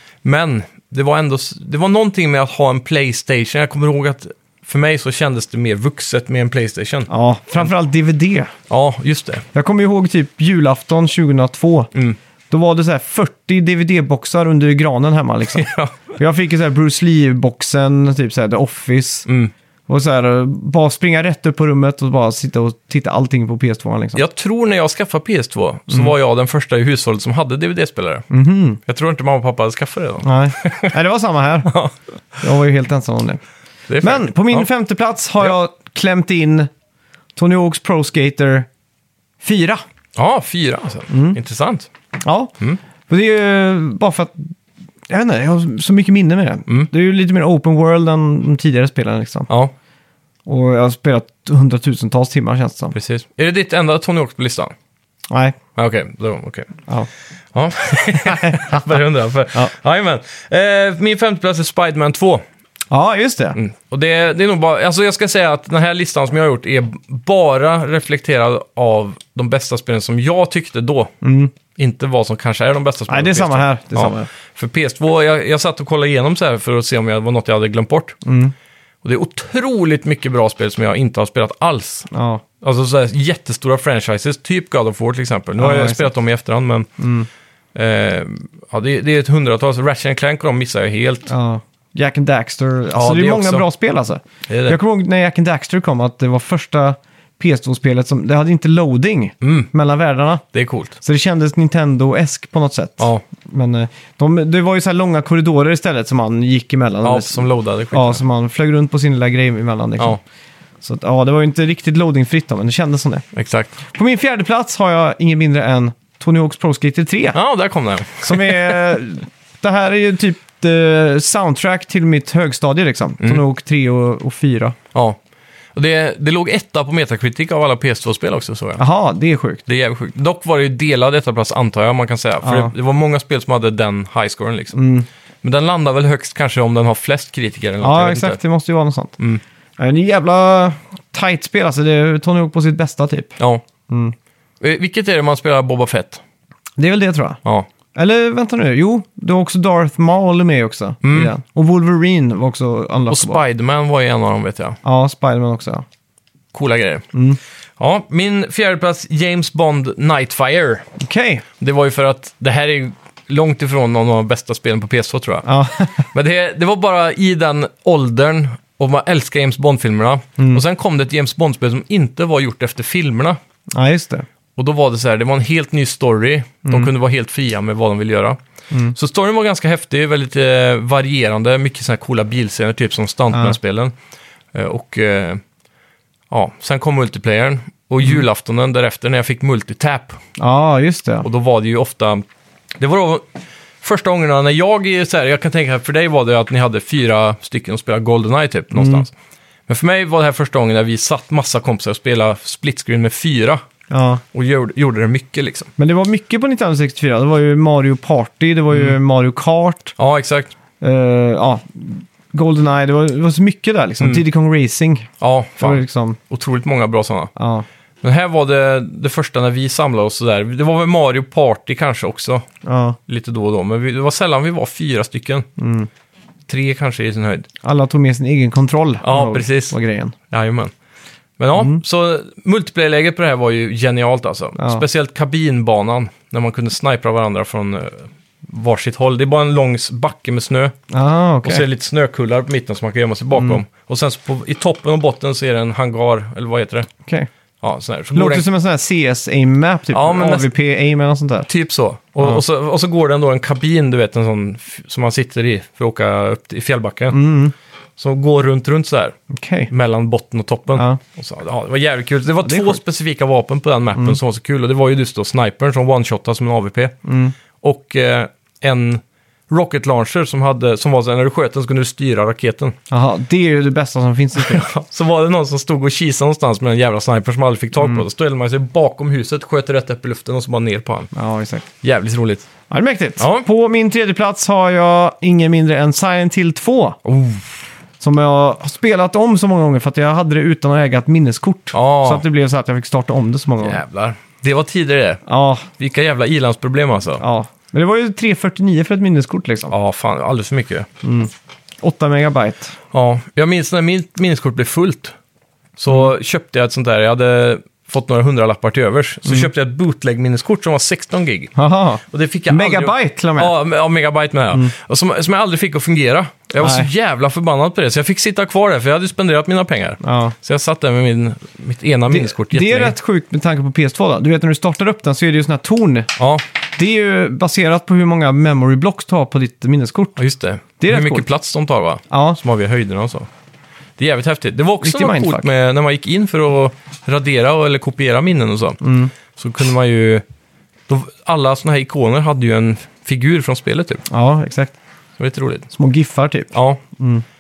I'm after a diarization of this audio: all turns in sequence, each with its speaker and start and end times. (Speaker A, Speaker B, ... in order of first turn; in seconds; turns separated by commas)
Speaker A: 0.2-7.1, Speaker B: 7.1-8.5, Speaker A: 8.7-9.4, Speaker B: 9.5-11.9, Speaker B: 12.5-19.3, Speaker A: 15.5-16.0, Speaker A: 19.3-19.5, Speaker B: 19.9-24.2, Speaker A: 24.1-28.3, Speaker B: 28.3-28.8, Speaker A: 28.9-30.9, Speaker B: 30.2-31.7, Speaker A: 31.7-31.9, Speaker B: 32.4-33.4, Speaker A: 33.9-34.7, Speaker B: 34.0-36.7, Speaker B: 37.4-38.7, Speaker B: 39.4-39.8, Speaker A: 40.2-41.9, Speaker B: 41.1-41.4, Speaker B: 42.2-42.5, Speaker B: 43.1-44.5, Speaker B: 45.1-49.5, Speaker B: 50.5-52.9, Speaker A: 52.9-54.7, Speaker B: 55.3-55.6, Speaker A: 55.8-56.8, Speaker A: 57.5-62.4, Speaker B: 58.3-58.8, Speaker B: 62.9-63.6, Speaker A: 63.5-71.2, Speaker B: 71.2-71.5, Speaker A: 71.8-78.2, Speaker B: 73.1-74.3, Speaker B: 78.2-78.5, Speaker A: 79.0-82.1, Speaker B: 82.1-82.4, Speaker A: 82.6-86.9, Speaker B: 85.6-86.1, Speaker B: 87.0-87.3, Speaker A: 87.8-91.3, Speaker B: 91.3-100.4, Speaker A: 92.9-93.7, Speaker A: 94.5-94.8, Speaker A: 99.4-99.7, Speaker A: 100.5-101.0, Speaker B: 101.0-110.2, Speaker A: 107.0-108.2, Speaker B: 110.8-113.3, Speaker A: 113.3-113.8, Speaker B: 113.9-117.4, Speaker A: 117.3-118.8, Speaker B: 118.2-124.8, Speaker A: 125.8-128.8, Speaker B: 128.8-129.6, Speaker A: 129.7-134.8, Speaker B: 132.4-132.7, Speaker B: 134.8-135.1, Speaker A: 135.4-138.4, Speaker B: 137.8-139.2, Speaker B: 139.8-144.2, Speaker A: 143.4-143.6, Speaker A: 144.6-146.2, Speaker B: 146.8-147.4, Speaker B: 147.9-153.4, Speaker A: 151.0-151.3, Speaker A: 153.1-154.8, Speaker B: 154.8-155.8, Speaker A: 156.5-157.1, Speaker B: 157.1-157.4, Speaker A: 157.8-160.9, Speaker B: 161.0-161.4, Speaker A: 161.6-165.5, Speaker B: 165.4-166.1, Speaker A: 166.1-173.4, Speaker B: 173.7-174.3, Speaker A: 174.6-178.4, Speaker A: 178.9-183.9, Speaker B: 183.3-183.6, Speaker A: 184.5-185.4, Speaker A: 186.3-190.2, Speaker B: 190.4-191.3, Speaker A: 191.2-192.2, Speaker A: 192.8-193.3, Speaker A: 193.8-199.1, Speaker B: 198.7-199.1, Speaker A: 199.7-203.6, Speaker B: 203.9-204.2, Speaker A: 204.3-205.7, Speaker B: 205.8-209.9, Speaker A: 208.7-209.0, Speaker A: 210.0-210.5, Speaker B: 210.8-216.2, Speaker A: 215.2-217.3, Speaker B: 217.4-217.7, Speaker A: 218.0-222.5, Speaker B: 222.6-223.0, Speaker A: 223.1-225.5, Speaker B: 225.6-225.9, Speaker A: 226.5-227.5, Speaker B: 227.6-230.2, Speaker A: 229.0-229.8, Speaker A: 230.3-230.7, Speaker A: 231.4-240.8, Speaker B: 231.6-231.8, Speaker B: 234.6-234.8, Speaker B: 240.9-241.7, Speaker A: 241.4-246.9, Speaker A: 247.6-248.4, Speaker B: 248.1-251.5, Speaker A: 249.9-250.5, Speaker A: 251.5-257.2, Speaker B: 257.1-257.5, Speaker A: 258.0-259.2, Speaker B: 259.3-259.7, Speaker A: 259.7-267.0, Speaker B: 262.4-262.8, Speaker B: 267.1-267.4, Speaker A: 267.6-272.8, Speaker B: 272.9-274.7, Speaker A: 274.4-281.1, Speaker B: 277.8-278.0, Speaker B: 281.1-281.7, Speaker A: 281.8-282.5, Speaker B: 282.7-287.0, Speaker A: 283.2-283.5, Speaker A: 287.1-287.5, Speaker B: 288.0-293.8, Speaker A: 291.7-292.2, Speaker A: 293.6-295.2, Speaker B: 295.3-295.7, Speaker A: 295.8-297.2, Speaker B: 297.2-299.7, Speaker A: 299.7-300.9, Speaker B: 301.0-302.8, Speaker A: 302.9-305.2, Speaker A: 305.8-311.6, Speaker B: 311.6-313.5, Speaker A: 312.1-323.0, Speaker B: 316.6-316.9, Speaker B: 320.0-320.4, Speaker B: 322.1-326.1, Speaker A: 326.2-326.4, Speaker B: 326.7-330.2, Speaker A: 330.2-333.3, Speaker B: 330.8-331.3, Speaker B: 332.1-332.4, Speaker A: 334.0-340.2, Speaker B: 334.8-335.4, Speaker B: 338.8-339.1, Speaker A: 340.9-344.0, Speaker B: 344.1-344.8, Speaker A: 345.2-345.7, Speaker B: 345.7-347.2, Speaker A: 346.5-346.8